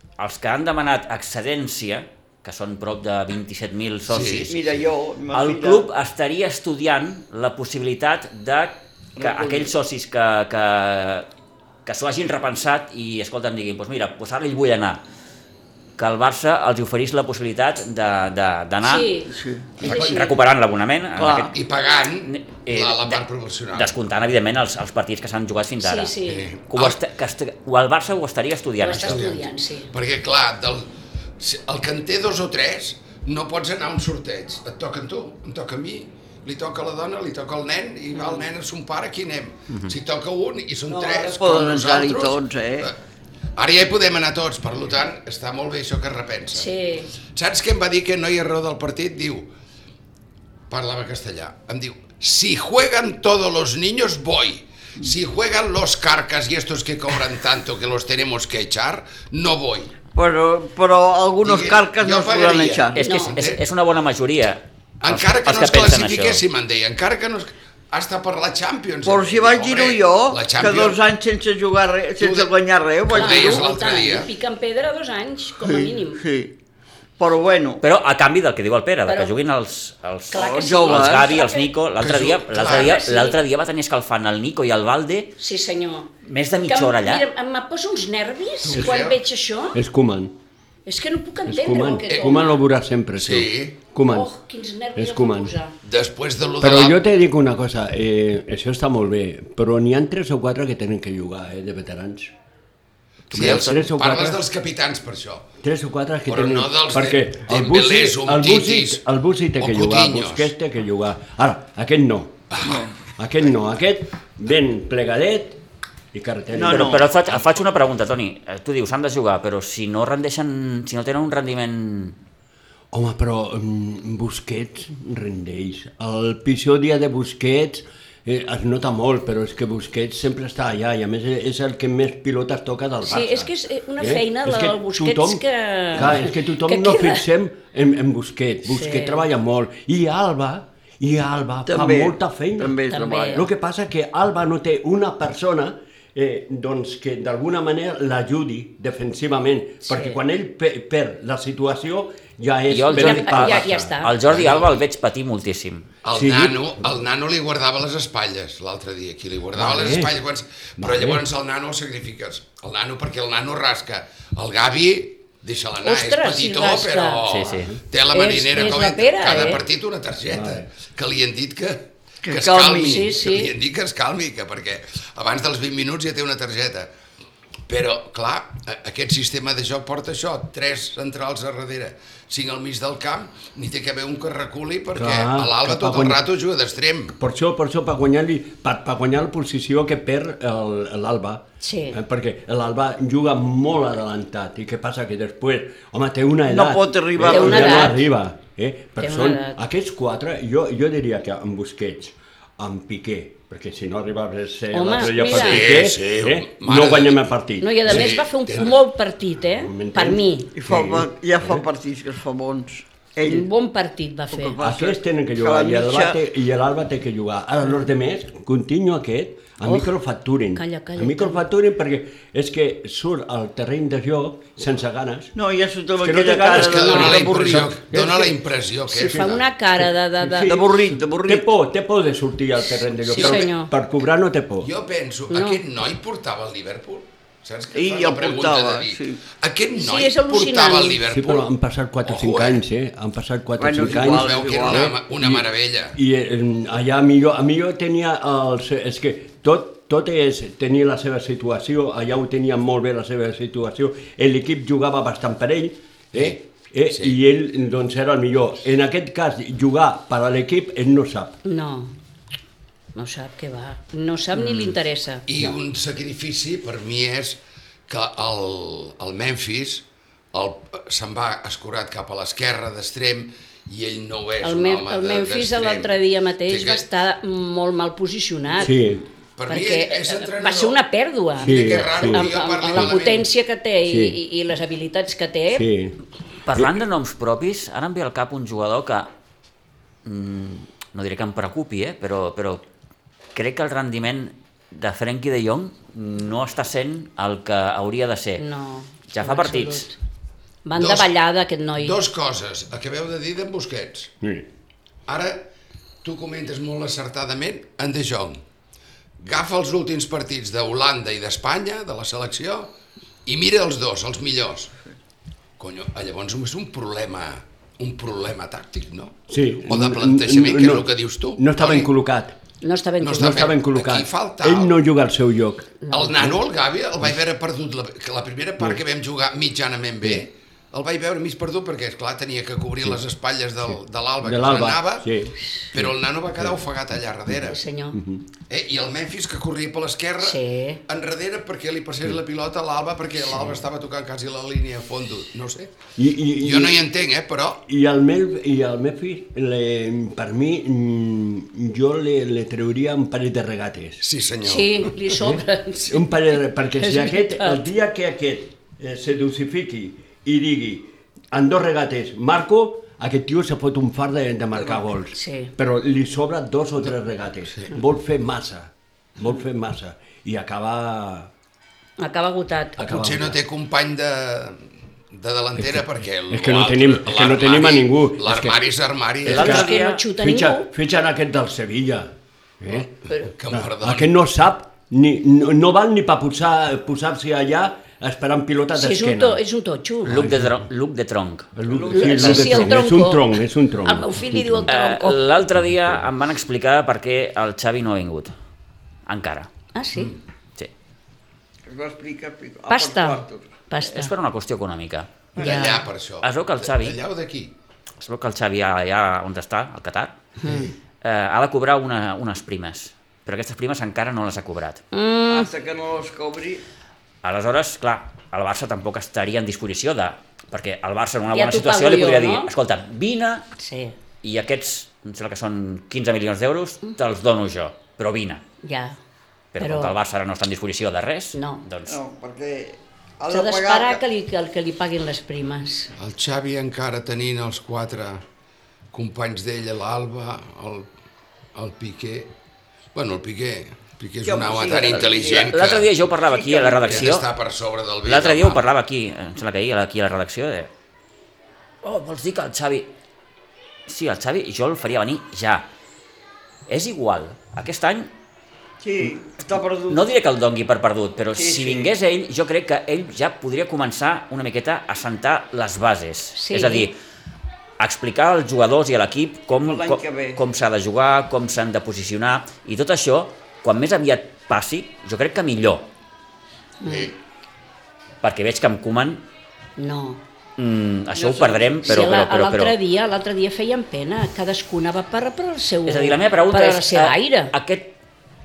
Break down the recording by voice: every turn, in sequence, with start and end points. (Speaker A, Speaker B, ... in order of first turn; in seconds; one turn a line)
Speaker A: 0.2-4.6
Speaker B: 4.1-4.6
Speaker C: 4.5-5.8
Speaker A: 5.3-11.3
Speaker C: 9.2-9.7
Speaker A: 11.8-15.0
Speaker A: 16.0-19.1
Speaker D: 18.8-20.3
Speaker C: 19.3-19.8
Speaker B: 19.8-20.3
Speaker A: 19.8-21.5
Speaker C: 21.2-21.5
Speaker B: 21.4-23.9
Speaker A: 22.2-26.2
Speaker D: 25.8-26.5
Speaker B: 26.3-27.0
Speaker A: 26.7-29.3
Speaker D: 28.8-29.9
Speaker B: 29.0-43.0
Speaker C: 40.9-42.9
Speaker B: 43.6-46.7
Speaker D: 46.5-47.1
Speaker B: 47.2-49.5
Speaker B: 50.7-59.9
Speaker C: 60.1-63.0
Speaker B: 61.4-63.6
Speaker A: 63.0-66.4
Speaker D: 63.0-63.4
Speaker B: 65.0-71.0
Speaker C: 69.0-73.7
Speaker B: 72.2-72.5
Speaker B: 73.1-74.3
Speaker D: 73.1-76.2
Speaker C: 75.6-76.5
Speaker C: 77.2-77.8
Speaker A: 77.8-85.3
Speaker D: 79.1-79.3
Speaker D: 80.3-81.7
Speaker C: 80.3-81.3
Speaker B: 82.0-83.0
Speaker D: 82.6-83.4
Speaker D: 85.4-89.8
Speaker A: 86.3-87.2
Speaker B: 88.6-89.2
Speaker E: 89.7-90.3
Speaker D: 90.8-92.6
Speaker E: 91.5-94.3
Speaker B: 92.1-92.4
Speaker B: 93.2-93.8
Speaker D: 94.1-95.8
Speaker E: 95.0-95.5
Speaker B: 95.8-97.0
Speaker E: 96.6-102.3
Speaker B: 103.3-105.5
Speaker E: 103.3-104.4
Speaker A: 103.4-103.8
Speaker E: 105.6-112.4
Speaker B: 106.3-109.0
Speaker B: 109.6-110.5
Speaker B: 112.5-112.9
Speaker C: 112.6-113.0
Speaker E: 113.2-115.6
Speaker E: 116.1-117.0
Speaker C: 116.5-117.0
Speaker A: 116.7-122.2
Speaker B: 117.2-117.7
Speaker E: 122.9-153.9
Speaker D: 133.0-137.2
Speaker D: 138.7-139.2
Speaker C: 141.7-143.4
Speaker D: 142.9-143.4
Speaker D: 149.9-150.2
Speaker A: 152.7-155.9
Speaker D: 152.9-154.2
Speaker B: 154.3-154.8
Speaker B: 156.0-176.9
Speaker E: 156.1-156.7
Speaker E: 159.5-160.2
Speaker E: 160.8-161.2
Speaker D: 165.8-167.2
Speaker A: 167.3-167.7
Speaker E: 167.5-167.8
Speaker D: 168.1-169.6
Speaker E: 170.3-170.7
Speaker C: 172.2-173.1
Speaker D: 172.8-173.5
Speaker B: 177.7-187.2
Speaker E: 184.9-186.2
Speaker E: 187.2-208.2
Speaker D: 191.6-192.0
Speaker C: 196.5-198.0
Speaker D: 197.3-198.0
Speaker D: 199.0-199.6
Speaker D: 204.7-205.8
Speaker B: 205.1-207.3
Speaker D: 207.6-210.5
Speaker B: 207.8-208.8
Speaker E: 209.5-211.7
Speaker C: 210.5-213.5
Speaker D: 213.2-214.6
Speaker C: 214.3-216.2
Speaker E: 214.6-225.3
Speaker D: 220.5-221.4
Speaker C: 225.3-227.8
Speaker E: 226.0-228.3
Speaker B: 226.4-229.4
Speaker D: 229.0-230.6
Speaker E: 229.0-234.7
Speaker C: 230.4-231.5
Speaker D: 233.1-233.7
Speaker B: 234.6-241.5
Speaker D: 235.3-235.6
Speaker C: 237.7-239.2
Speaker D: 239.8-241.0
Speaker E: 241.1-261.4
Speaker B: 242.0-242.6
Speaker C: 243.6-244.9
Speaker B: 243.8-246.0
Speaker B: 256.9-257.1
Speaker D: 261.4-261.9
Speaker D: 262.9-265.2
Speaker A: 264.4-264.7
Speaker B: 265.3-276.9
Speaker D: 274.4-278.7
Speaker E: 278.6-279.1
Speaker B: 279.4-280.8
Speaker D: 279.5-285.7
Speaker B: 281.4-283.3
Speaker E: 281.4-283.0
Speaker E: 283.9-284.2
Speaker E: 285.5-286.0
Speaker A: 286.4-289.1
Speaker A: 290.1-292.6
Speaker A: 293.4-298.4
Speaker D: 298.4-300.0
Speaker A: 299.1-299.9
Speaker D: 300.6-302.0
Speaker B: 300.8-301.1
Speaker B: 301.8-304.1
Speaker E: 304.2-304.5
Speaker B: 305.1-305.5
Speaker B: 306.0-308.4
Speaker B: 309.2-312.7
Speaker B: 313.2-314.7
Speaker B: 315.6-321.9
Speaker E: 319.3-322.4
Speaker D: 322.6-323.5
Speaker B: 323.0-324.8
Speaker E: 323.1-325.7
Speaker D: 325.9-326.1
Speaker B: 325.9-335.1
Speaker E: 333.7-336.5
Speaker B: 335.7-337.6
Speaker D: 337.4-338.0
Speaker E: 337.9-338.2
Speaker B: 338.5-345.7
Speaker D: 340.2-340.8
Speaker E: 346.0-346.8
Speaker B: 346.4-347.6
Speaker E: 347.7-354.0
Speaker B: 354.0-355.1
Speaker D: 354.4-356.0
Speaker E: 355.2-371.3
Speaker D: 356.8-357.6
Speaker D: 365.1-365.5
Speaker D: 372.0-372.9
Speaker E: 372.8-373.4
Speaker B: 372.9-379.6
Speaker E: 375.6-378.6
Speaker E: 379.2-382.9
Speaker A: 379.3-380.0
Speaker D: 379.3-380.7
Speaker B: 382.7-384.1
Speaker E: 383.5-389.4
Speaker D: 388.7-390.2
Speaker A: 390.1-391.5
Speaker E: 390.1-390.5
Speaker E: 391.6-394.7
Speaker C: 391.7-392.7
Speaker D: 391.9-393.3
Speaker D: 393.8-395.2
Speaker A: 394.7-398.3
Speaker A: 399.1-399.5
Speaker D: 399.7-400.1
Speaker C: 401.7-403.6
Speaker D: 402.7-404.1
Speaker A: 403.9-405.1
Speaker C: 405.4-405.7
Speaker B: 405.4-407.5
Speaker D: 405.4-405.8
Speaker A: 406.2-407.0
Speaker A: 408.0-410.2
Speaker D: 410.4-410.7
Speaker A: 411.0-414.8
Speaker D: 414.9-415.5
Speaker C: 415.3-416.6
Speaker A: 417.2-423.5
Speaker D: 421.3-422.5
Speaker D: 423.6-423.9
Speaker A: 424.2-428.4
Speaker D: 428.6-429.0
Speaker A: 429.5-432.0
Speaker D: 429.6-429.9
Speaker D: 431.3-431.6
Speaker C: 431.9-434.0
Speaker D: 433.3-435.9
Speaker B: 436.0-438.2
Speaker B: 438.9-440.9
Speaker B: 441.6-442.3
Speaker B: 442.9-446.0
Speaker C: 444.2-445.6
Speaker A: 445.5-447.3
Speaker C: 446.2-447.1
Speaker B: 446.9-448.6
Speaker A: 448.0-450.7
Speaker A: 451.8-452.9
Speaker A: 453.9-455.7
Speaker A: 456.7-458.1
Speaker C: 458.8-460.1
Speaker A: 459.9-467.0
Speaker C: 461.3-461.9
Speaker D: 466.4-466.9
Speaker A: 467.8-475.9
Speaker C: 469.6-470.4
Speaker D: 476.8-477.1
Speaker A: 478.2-479.2
Speaker D: 479.8-480.2
Speaker A: 480.6-482.8
Speaker C: 481.1-482.1
Speaker D: 481.9-487.5
Speaker A: 485.9-487.9